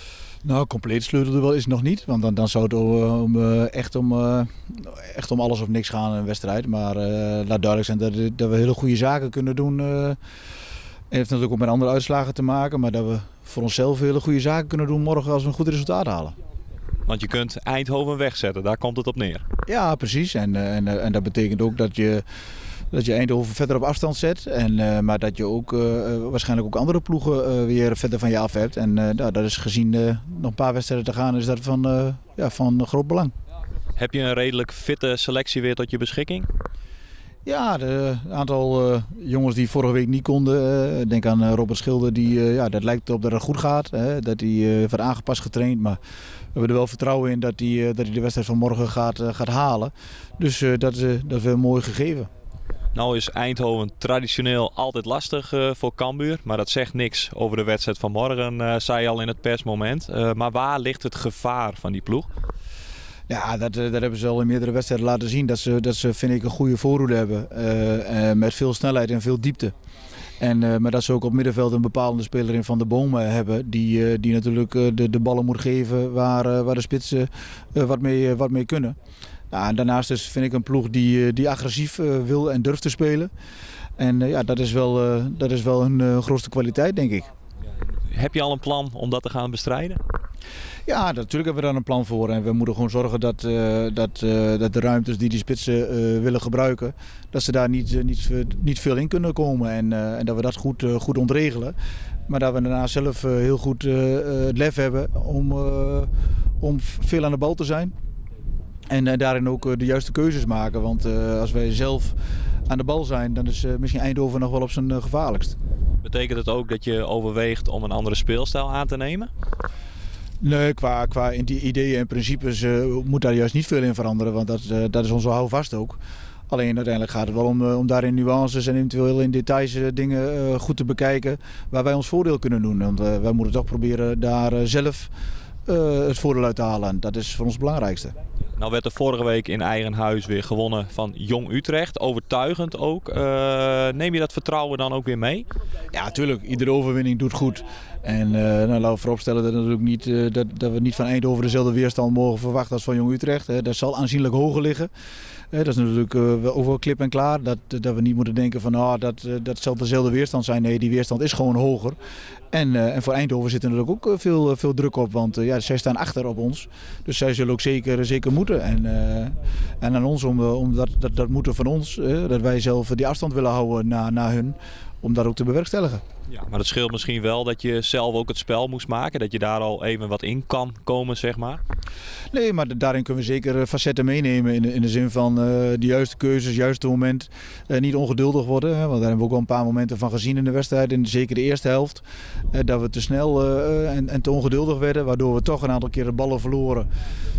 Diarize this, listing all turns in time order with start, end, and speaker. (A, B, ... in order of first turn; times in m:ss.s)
0:00.4-0:10.2 A
0:11.1-0:16.3 A
0:17.1-0:19.4 B
0:19.7-0:22.2 A
0:22.9-0:33.3 A
0:34.0-0:36.5 B
0:37.4-0:46.0 A
0:46.5-0:52.3 A
0:52.9-1:02.3 B
1:03.3-1:09.7 A
1:10.4-1:19.0 A
1:19.5-1:23.3 A
1:24.0-1:27.3 A
1:28.1-1:30.0 B
1:30.9-1:41.8 A
1:42.3-1:46.1 A
1:46.6-1:47.9 A
1:48.9-1:52.1 A
1:52.7-1:55.5 A
1:56.0-1:59.3 B
2:00.4-2:06.0 A
2:06.5-2:15.1 A
2:15.7-2:18.1 A
2:18.6-2:25.4 B
2:25.9-2:34.9 A
2:35.5-2:42.0 A
2:42.5-2:56.0 A
2:56.3-3:01.6 B
3:02.3-3:16.9 A